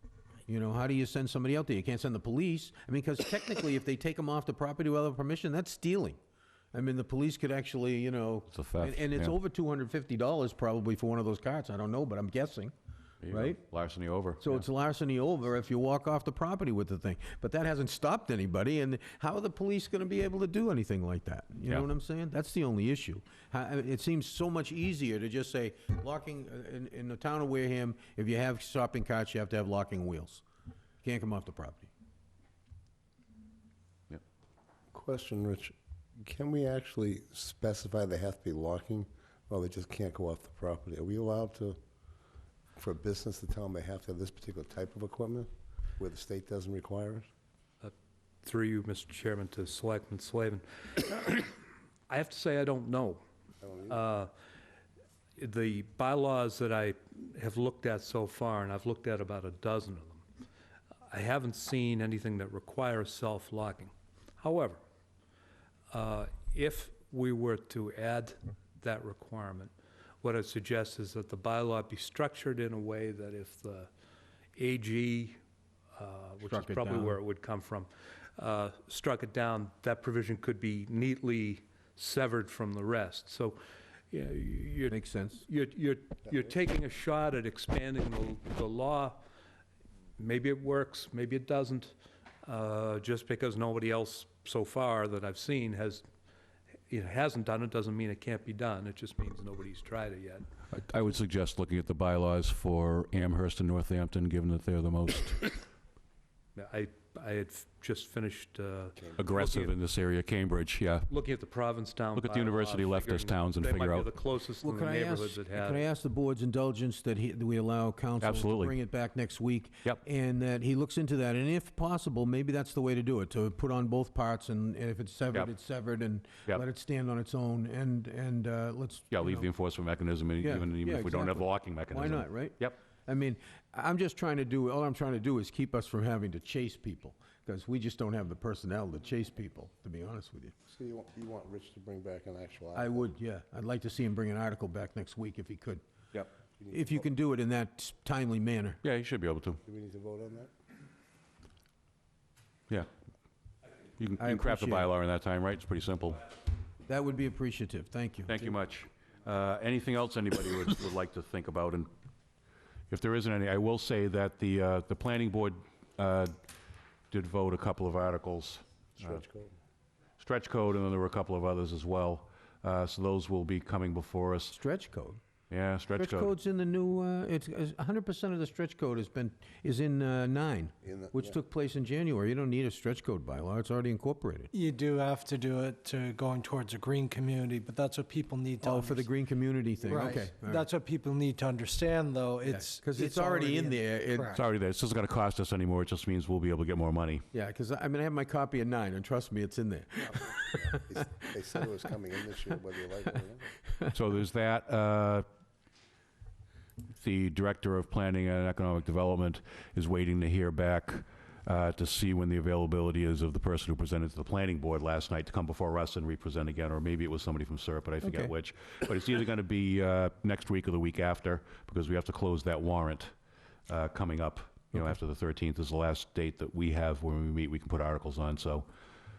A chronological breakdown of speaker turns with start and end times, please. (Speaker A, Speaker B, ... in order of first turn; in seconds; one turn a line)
Speaker A: 0.5-6.2
Speaker A: 6.7-12.7
Speaker B: 8.5-9.3
Speaker B: 13.2-14.5
Speaker A: 13.3-13.6
Speaker A: 14.4-30.4
Speaker A: 31.0-31.9
Speaker C: 34.9-41.8
Speaker C: 42.8-47.3
Speaker D: 47.8-53.2
Speaker C: 53.6-54.0
Speaker D: 53.9-54.3
Speaker D: 55.4-60.2
Speaker D: 61.1-64.8
Speaker D: 65.9-73.9
Speaker D: 74.6-75.4
Speaker D: 76.0-83.6
Speaker A: 76.5-77.2
Speaker D: 84.1-89.2
Speaker A: 84.9-85.5
Speaker D: 90.2-91.9
Speaker D: 92.5-96.1
Speaker D: 96.9-100.6
Speaker B: 100.7-105.6
Speaker D: 106.6-109.8
Speaker C: 109.0-109.3
Speaker B: 109.2-111.1
Speaker D: 111.1-115.9
Speaker B: 112.1-114.1
Speaker A: 114.6-129.5
Speaker B: 118.2-118.8
Speaker B: 129.1-132.8
Speaker A: 130.4-140.6
Speaker C: 140.7-143.1
Speaker A: 142.8-145.8
Speaker C: 146.6-147.0
Speaker A: 146.7-148.8
Speaker B: 148.8-149.6
Speaker C: 149.6-150.5
Speaker B: 154.0-156.3
Speaker A: 154.2-154.9
Speaker A: 156.9-158.5
Speaker B: 158.3-161.9
Speaker B: 162.9-166.4
Speaker B: 167.1-169.2
Speaker C: 169.0-169.5
Speaker B: 170.2-174.6
Speaker A: 174.5-175.2
Speaker B: 175.5-176.3
Speaker A: 176.0-184.5
Speaker C: 180.8-181.4
Speaker E: 184.5-189.1
Speaker A: 188.6-190.7
Speaker E: 189.8-194.4
Speaker A: 192.5-194.3
Speaker B: 194.3-197.2
Speaker A: 197.3-201.0
Speaker C: 200.8-203.5
Speaker B: 203.9-205.3
Speaker B: 206.9-223.1
Speaker A: 218.0-218.3
Speaker B: 223.7-228.7